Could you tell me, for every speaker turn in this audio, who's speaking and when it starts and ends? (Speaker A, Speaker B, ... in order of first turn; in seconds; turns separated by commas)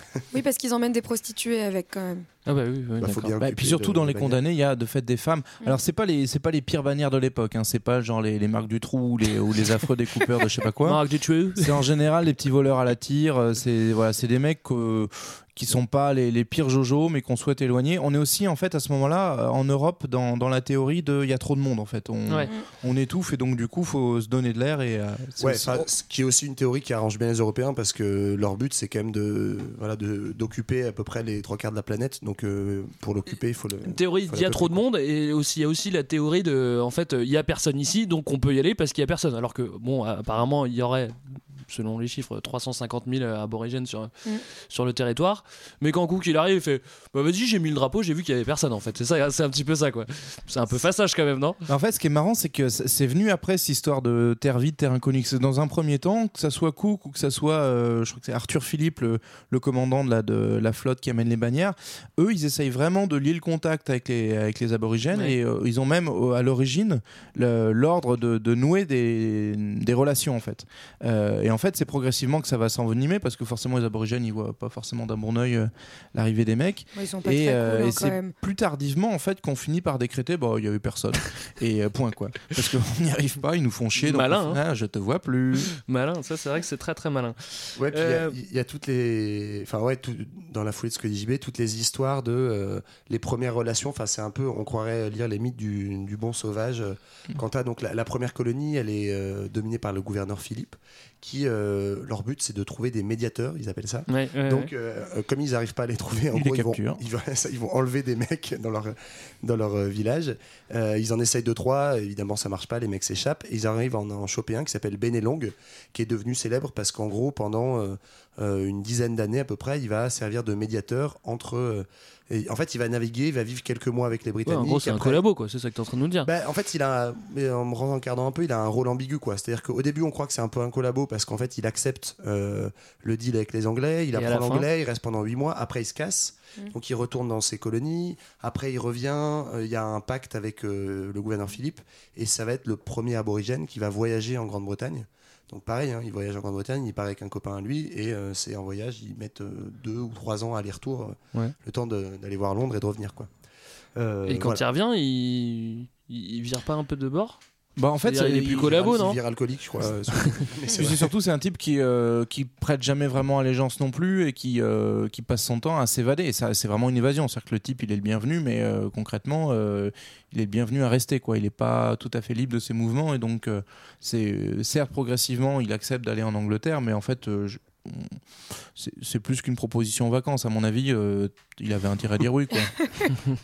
Speaker A: 0.3-2.3, Speaker B: 2.5-3.3, Speaker C: 3.0-4.4, Speaker D: 3.0-11.0, Speaker B: 10.8-11.9, Speaker D: 11.6-25.9, Speaker C: 25.4-34.8, Speaker B: 33.9-44.1, Speaker B: 44.6-51.6, Speaker D: 51.7-85.8, Speaker B: 65.1-65.4, Speaker A: 77.0-78.3, Speaker B: 84.0-84.6, Speaker B: 85.8-88.4, Speaker C: 87.8-125.2, Speaker B: 104.1-104.7, Speaker D: 106.3-107.0, Speaker B: 124.5-126.3, Speaker C: 126.2-153.3, Speaker B: 134.1-134.7, Speaker C: 154.0-154.6, Speaker B: 154.3-157.4, Speaker D: 157.8-158.8, Speaker B: 158.0-159.2, Speaker C: 158.5-161.1, Speaker D: 160.7-178.2, Speaker D: 178.8-182.8